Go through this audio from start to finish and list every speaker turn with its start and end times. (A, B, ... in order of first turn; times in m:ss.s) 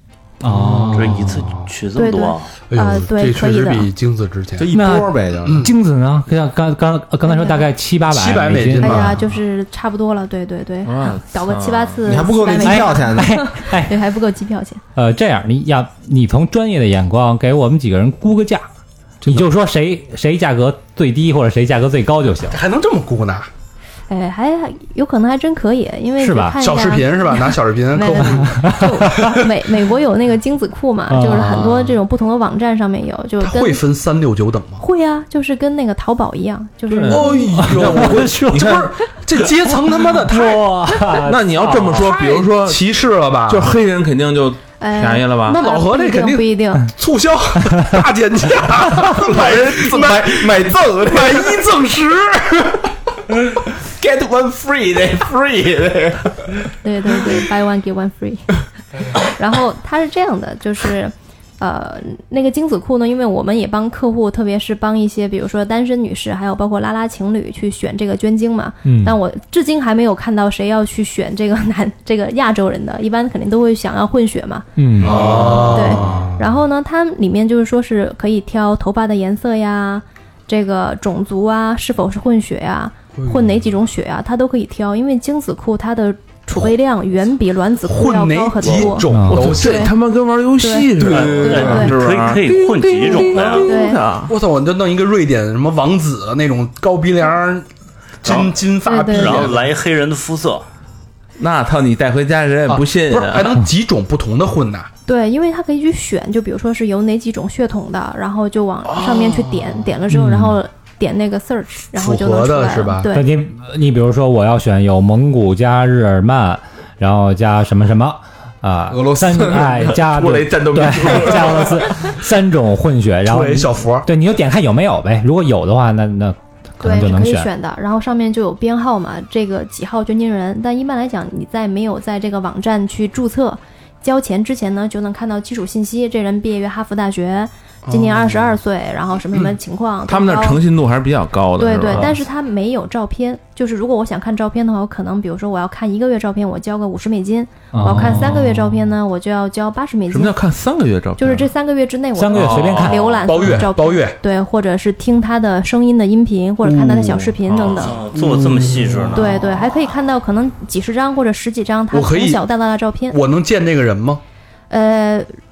0:00.4-0:01.4 A
0:00.4-0:01.7 B
0:00.9-0:02.5 C
0:01.9-0:03.9 D
0:02.7-0:04.7 B
0:04.6-0:05.7 E
0:04.7-0:09.2 A
0:05.4-0:05.7 B
0:07.2-0:07.7 D
0:08.1-0:09.2 B
0:08.8-0:14.8 D
0:10.8-0:12.1 F
0:12.0-0:13.4 E
0:12.6-0:14.0 A
0:15.0-0:18.7 A
0:19.2-0:22.6 A
0:22.5-0:23.5 B
0:24.1-0:33.8 D
0:26.2-0:26.6 A
0:26.6-0:29.4 B
0:28.4-0:29.2 A
0:31.1-0:31.9 A
0:33.4-0:34.8 B
0:34.8-0:37.8 D
0:36.9-0:38.8 F
0:37.0-0:41.0 B
0:37.5-0:38.9 A
0:40.1-0:42.2 A
0:41.1-0:42.9 F
0:42.0-0:43.7 B
0:43.5-0:45.6 F
0:44.8-0:46.9 D
0:45.5-0:52.8 B
0:49.0-0:51.8 E
0:53.8-0:56.4 E
0:56.8-0:58.5 D
0:59.2-1:14.7 D
1:08.8-1:09.2 A
1:14.8-1:15.4 A
1:15.0-1:16.0 C
1:15.0-1:16.4 B
1:15.6-1:29.9 D
1:23.2-1:23.6 B
1:27.8-1:29.9 B
1:28.6-1:28.9 C
1:29.1-1:29.6 A
1:29.3-1:34.3 F
1:30.6-1:31.9 D
1:31.0-1:31.9 E
1:31.4-1:33.8 C
1:33.6-1:34.0 D
1:34.3-1:37.7 B
1:38.2-1:39.7 B
1:38.2-1:38.5 C
1:38.8-1:39.5 D
1:39.1-1:40.7 C
1:41.4-1:43.5 F
1:42.7-1:44.9 B
1:45.0-1:53.3 D
1:49.0-1:49.5 B
1:50.1-1:50.6 A
1:51.9-1:53.1 B
1:53.1-2:07.5 A
1:58.9-2:00.0 E
1:59.6-2:02.1 F
2:03.2-2:04.1 B
2:06.8-2:20.6 D
2:17.8-2:18.6 B
2:20.1-2:22.2 F
2:21.6-2:30.3 D
2:27.7-2:28.8 A
2:30.1-2:31.5 F
2:31.2-2:38.0 D
2:32.2-2:33.6 A
2:32.3-2:33.2 F
2:33.2-2:34.2 B
2:36.6-2:37.3 B
2:37.5-2:38.0 F
2:37.6-2:39.4 C
2:38.1-2:39.4 B
2:39.1-2:43.2 D
2:41.9-2:42.4 B
2:43.1-2:44.2 B
2:44.7-2:45.3 D